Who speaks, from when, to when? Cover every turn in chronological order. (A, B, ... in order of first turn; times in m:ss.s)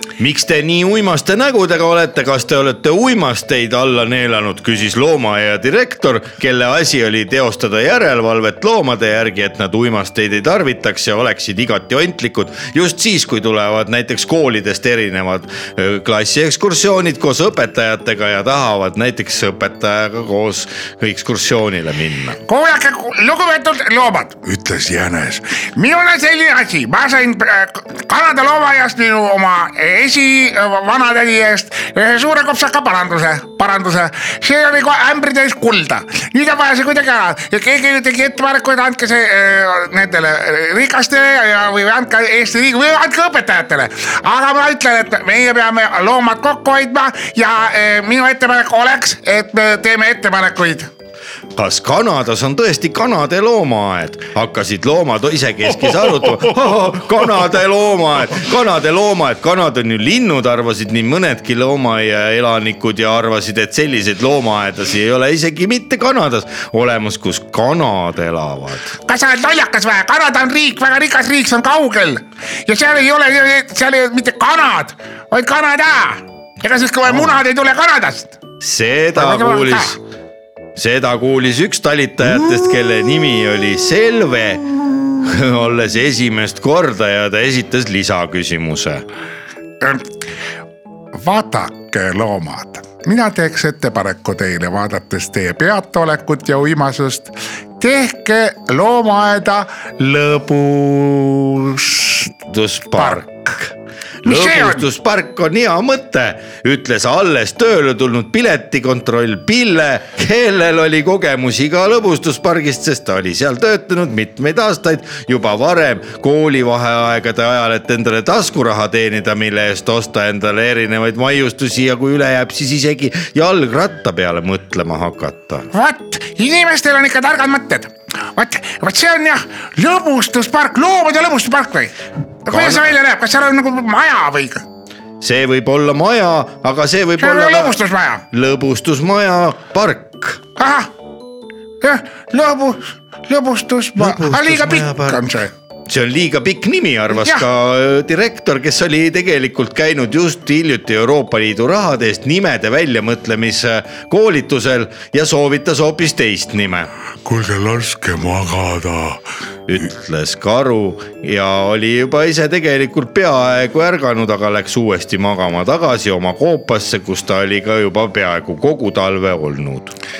0:00.2-0:22.4 A
0:22.4-0:24.4 B
0:24.4-0:25.6 C
0:25.8-0:50.9 B
0:51.6-1:08.9 A
1:09.0-1:18.4 B
1:17.1-1:17.3 A
1:18.6-1:20.0 A
1:19.1-1:20.0 B
1:20.8-1:24.7 A
1:25.2-1:29.0 A
1:31.2-1:42.3 B
1:42.5-1:43.7 A
1:43.0-1:43.4 B
1:44.2-2:05.7 A
1:44.2-1:44.8 B
2:05.7-2:11.9 B
2:12.4-2:14.6 B
2:12.5-2:12.8 A
2:15.2-2:17.8 A
2:17.2-2:18.2 B
2:18.3-2:20.4 A
2:20.6-2:20.9 B
2:21.8-2:25.5 B
2:24.0-2:25.2 A
2:25.9-2:36.9 A
2:27.2-2:27.4 B
2:37.2-2:39.2 C
2:39.7-2:49.9 A